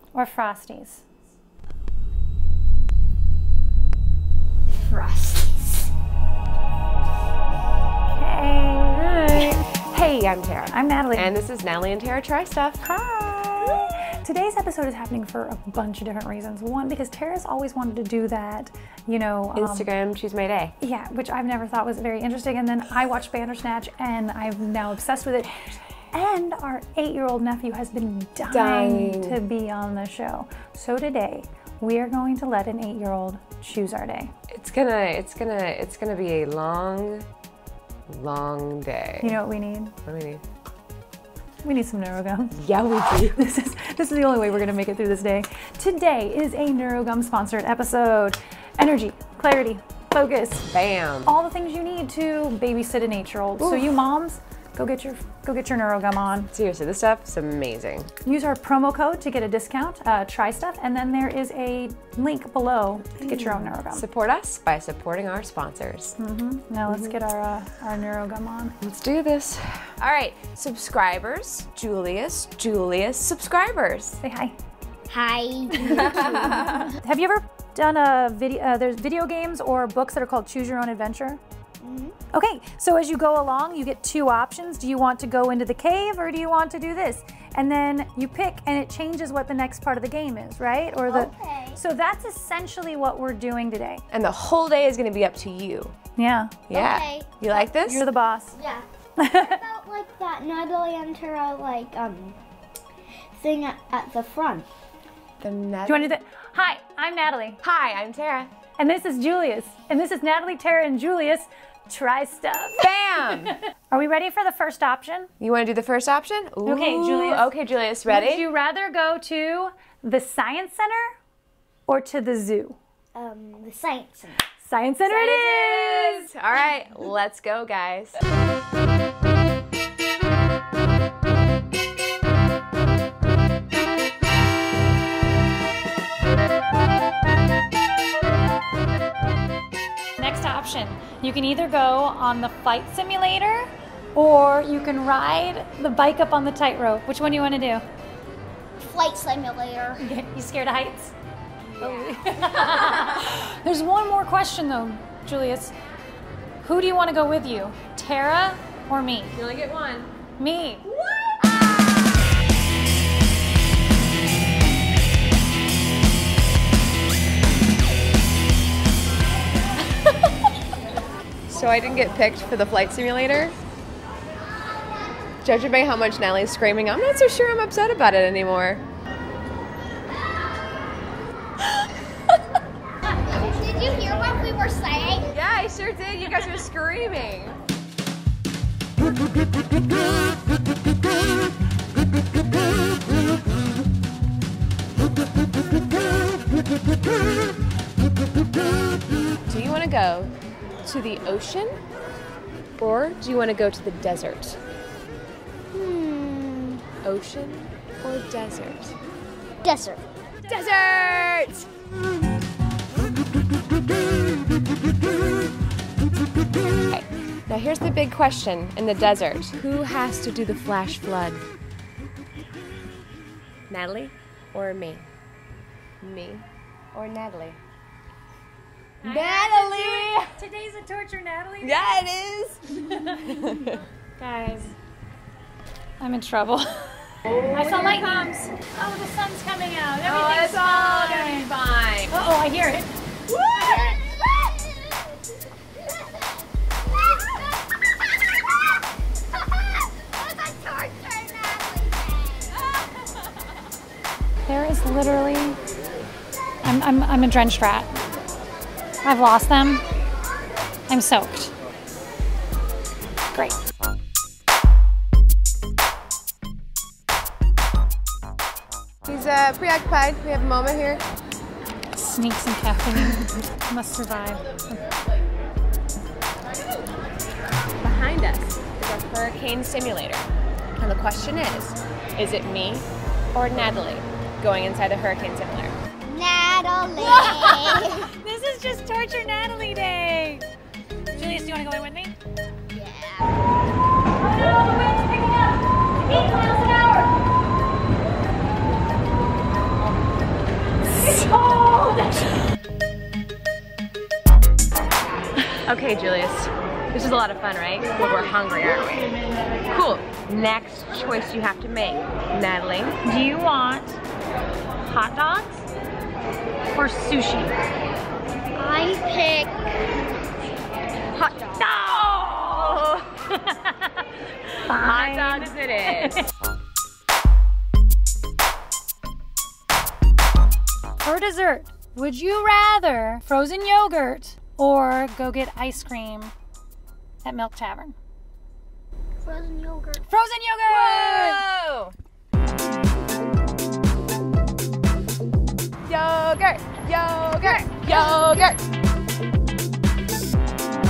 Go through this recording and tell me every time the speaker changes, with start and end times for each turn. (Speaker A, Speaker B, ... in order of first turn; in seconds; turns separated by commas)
Speaker A: 0.1-1.0, Speaker B: 4.8-5.7, Speaker A: 8.1-9.2, Speaker B: 8.9-12.8, Speaker A: 10.7-11.3, Speaker A: 12.8-19.9, Speaker B: 19.6-20.7, Speaker A: 20.8-34.3, Speaker B: 28.5-29.4, Speaker B: 34.5-37.2, Speaker B: 38.1-39.4, Speaker A: 39.2-39.9, Speaker B: 40.0-40.4, Speaker A: 41.6-42.6, Speaker B: 42.5-43.4, Speaker A: 43.2-50.7, Speaker B: 50.7-51.3, Speaker A: 51.2-56.5, Speaker B: 53.6-53.9, Speaker B: 56.5-58.1, Speaker A: 58.2-64.0, Speaker B: 63.2-66.1, Speaker A: 66.2-68.8, Speaker B: 66.9-67.2, Speaker B: 68.8-74.2, Speaker A: 74.2-74.5, Speaker C: 75.1-76.7, Speaker B: 75.8-76.9, Speaker A: 76.5-81.4, Speaker C: 81.8-82.2, Speaker A: 82.3-94.0, Speaker C: 91.1-91.8, Speaker B: 94.1-95.9, Speaker A: 96.2-96.6, Speaker B: 96.7-98.0, Speaker C: 96.7-97.4, Speaker A: 97.5-98.5, Speaker C: 98.5-102.4, Speaker A: 99.2-99.6, Speaker C: 103.3-104.7, Speaker B: 105.4-106.0, Speaker A: 105.8-107.6, Speaker B: 107.6-108.5, Speaker A: 108.8-115.3, Speaker B: 112.8-113.5, Speaker B: 115.4-118.5, Speaker A: 116.6-117.5, Speaker A: 118.0-121.1, Speaker A: 121.9-122.8, Speaker C: 123.1-124.4, Speaker A: 124.6-126.2, Speaker B: 125.1-128.2, Speaker A: 140.2-147.8, Speaker C: 148.8-150.0, Speaker A: 150.0-151.1, Speaker B: 151.6-153.2, Speaker A: 151.8-155.8, Speaker A: 156.6-159.3, Speaker B: 159.3-160.1, Speaker A: 160.4-160.8, Speaker C: 161.6-162.1, Speaker B: 171.5-173.5, Speaker B: 175.4-178.8, Speaker C: 183.1-185.3, Speaker B: 185.2-187.6, Speaker B: 199.5-200.3, Speaker B: 200.8-201.8, Speaker B: 202.8-204.6, Speaker C: 205.7-206.8, Speaker B: 207.0-208.9, Speaker C: 209.6-210.0, Speaker B: 210.5-211.7, Speaker B: 216.9-221.4, Speaker B: 223.7-225.1, Speaker B: 226.0-227.6, Speaker A: 229.0-232.1, Speaker B: 229.0-230.3, Speaker B: 231.6-233.8, Speaker A: 232.7-234.8, Speaker A: 236.0-241.6, Speaker B: 237.2-238.2, Speaker B: 240.0-242.1, Speaker A: 242.1-242.9, Speaker B: 243.3-243.8, Speaker A: 243.5-244.0, Speaker C: 243.7-245.0, Speaker C: 245.8-246.3, Speaker C: 246.8-248.8, Speaker C: 249.4-252.6, Speaker A: 254.5-255.6, Speaker A: 256.6-257.9, Speaker A: 259.0-259.9, Speaker A: 260.9-261.5, Speaker B: 269.1-271.0, Speaker A: 271.9-274.9, Speaker B: 277.8-280.2, Speaker B: 280.8-285.8, Speaker C: 286.1-288.1, Speaker A: 287.0-290.4, Speaker A: 291.1-292.1, Speaker C: 292.7-293.3, Speaker A: 294.3-297.1, Speaker A: 300.9-302.3, Speaker B: 305.6-309.1, Speaker B: 309.7-313.0, Speaker A: 313.0-314.0, Speaker A: 314.8-315.6, Speaker A: 316.7-317.5, Speaker C: 318.6-319.7, Speaker B: 321.2-323.0, Speaker A: 321.6-322.9, Speaker A: 323.4-323.9, Speaker A: 324.6-326.3, Speaker B: 324.7-326.2, Speaker A: 331.0-336.3, Speaker A: 337.2-337.9, Speaker C: 339.2-340.1, Speaker A: 340.1-341.4, Speaker B: 340.6-341.9, Speaker B: 345.9-348.6, Speaker C: 347.4-348.6